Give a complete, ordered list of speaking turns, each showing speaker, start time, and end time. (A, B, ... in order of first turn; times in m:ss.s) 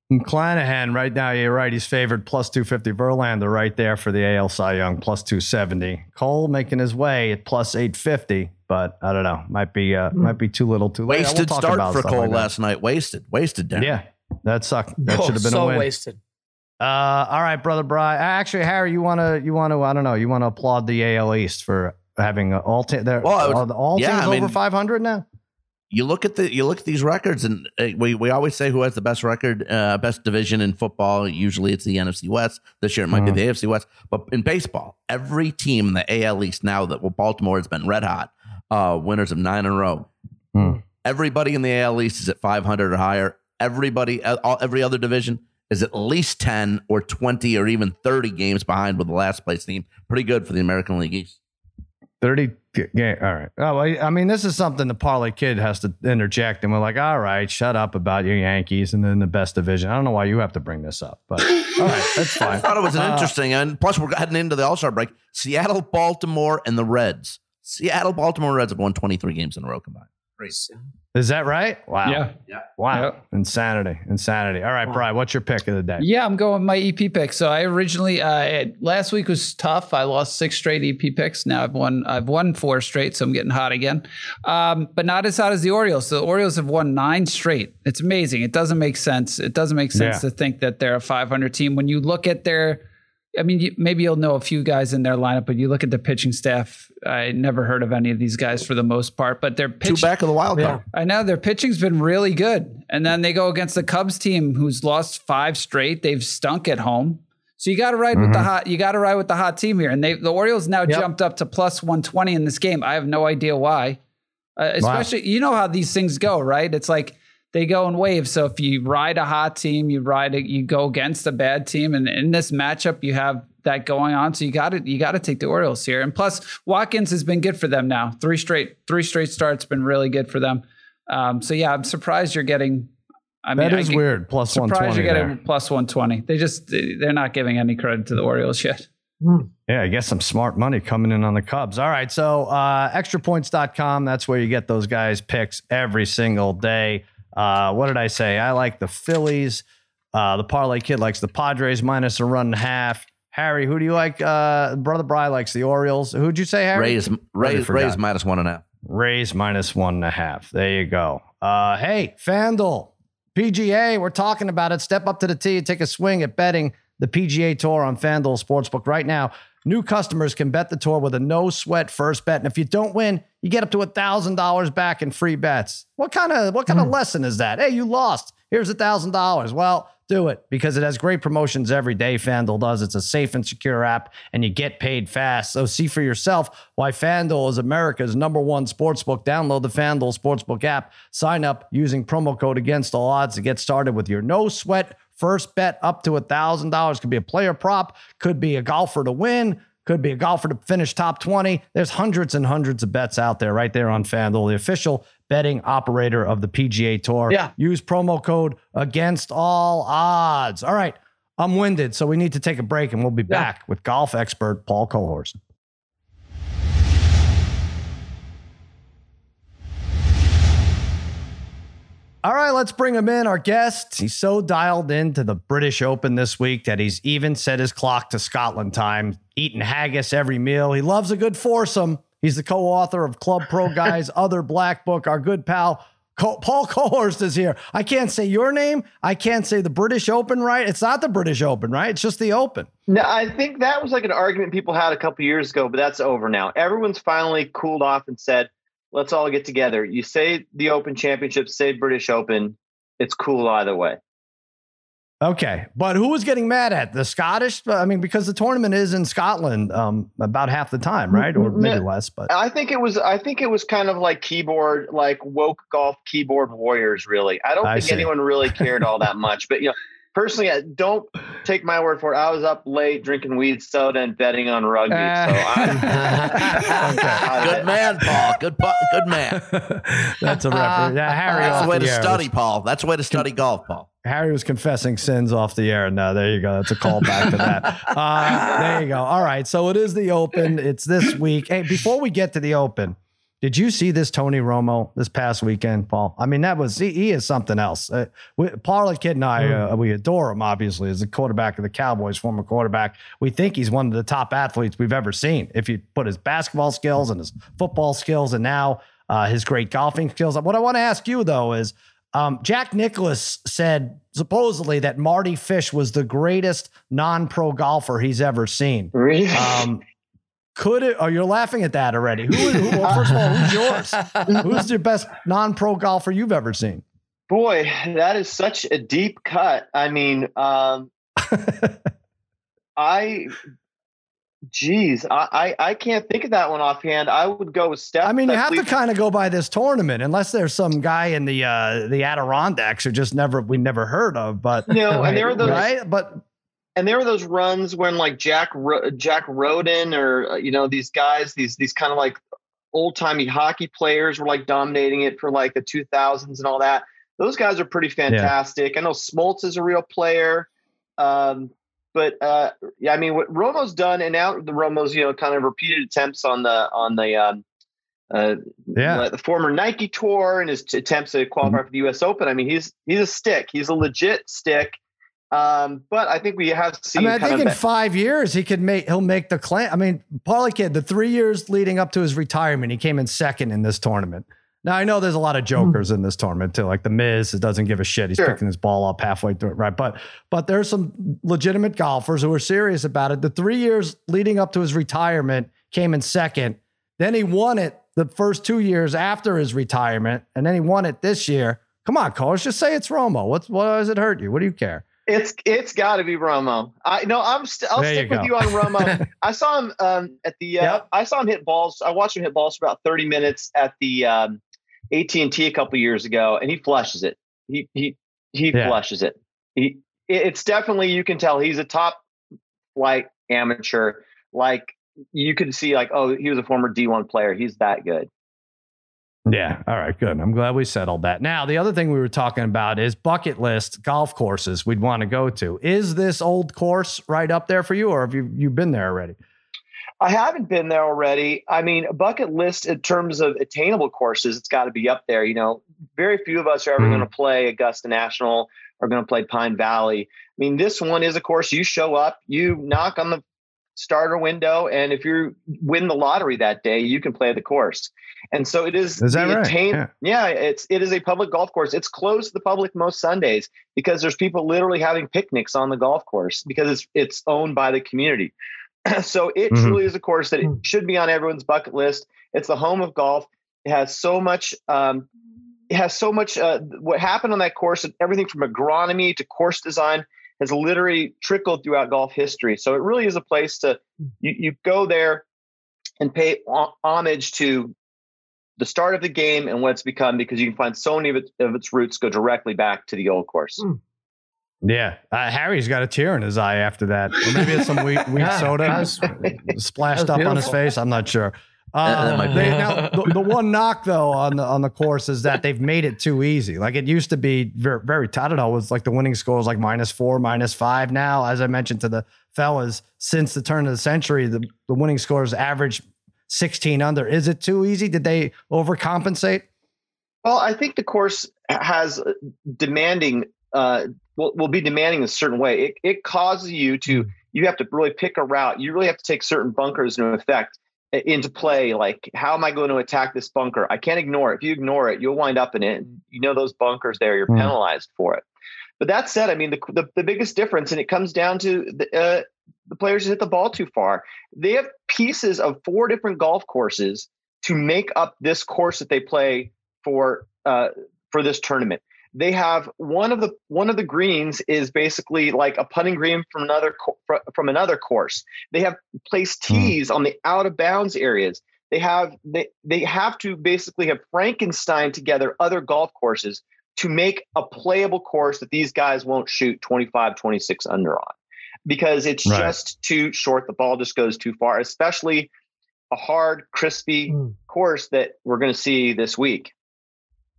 0:00.1-0:12.5 A
0:11.1-0:14.0 B
0:13.8-0:15.9 A
0:15.0-0:16.2 C
0:16.8-0:25.2 A
0:23.2-0:24.6 B
0:25.9-0:40.1 B
0:33.1-0:33.4 A
0:41.0-0:51.4 B
0:52.2-1:03.3 A
1:02.5-1:10.5 B
1:11.2-1:16.0 A
1:12.1-1:12.4 D
1:16.0-1:32.8 D
1:29.9-1:30.2 A
1:33.4-1:40.1 D
1:39.8-1:40.8 B
1:40.9-1:54.0 D
1:48.1-1:48.5 A
1:54.6-2:12.9 D
1:54.8-1:55.1 A
2:13.4-2:18.9 D
2:13.6-2:15.4 A
2:19.2-2:19.5 C
2:19.7-2:38.0 A
2:36.7-2:38.6 B
2:38.9-3:35.4 A
3:42.2-4:02.7 A
4:02.9-4:14.0 E
4:15.2-4:22.3 A
4:21.2-4:37.8 E
4:27.6-4:28.1 A
4:34.9-4:37.3 A
4:35.9-4:37.2 C
4:37.3-4:39.4 B
4:39.3-4:42.3 A
4:40.5-4:41.7 C
4:41.4-4:43.9 B
4:44.0-5:19.8 A
4:48.3-4:48.7 C
5:18.9-5:19.7 E
5:20.6-5:26.8 A
5:22.8-5:23.2 E
5:24.3-5:24.6 E
5:27.3-5:30.9 E
5:31.3-5:31.8 A
5:32.8-5:33.3 E
5:34.5-5:38.7 E
5:38.0-5:44.7 A
5:44.7-5:45.7 E
5:44.9-5:45.6 C
5:45.4-5:46.2 A
5:46.8-5:52.2 E
5:52.7-6:00.5 E
6:01.0-6:07.4 E
6:08.1-6:14.8 E
6:08.8-6:09.1 A
6:15.3-6:17.6 E
6:17.0-6:44.8 A
6:45.1-7:02.0 E
6:47.8-6:48.7 A
7:02.8-7:08.1 E
7:09.3-7:19.2 A
7:20.0-7:33.2 E
7:33.8-7:48.3 E
7:39.0-7:39.9 A
7:48.8-7:55.1 E
7:49.5-7:49.8 A
7:55.7-8:05.2 E
8:06.0-8:07.8 E
8:08.6-8:13.6 E
8:14.6-8:39.5 A
8:18.2-8:19.1 C
8:19.9-8:20.5 C
8:21.8-8:22.6 B
8:22.0-8:23.2 C
8:40.2-8:58.2 E
8:58.8-9:31.2 E
9:31.7-9:35.3 E
9:32.3-9:32.6 A
9:35.9-9:39.5 E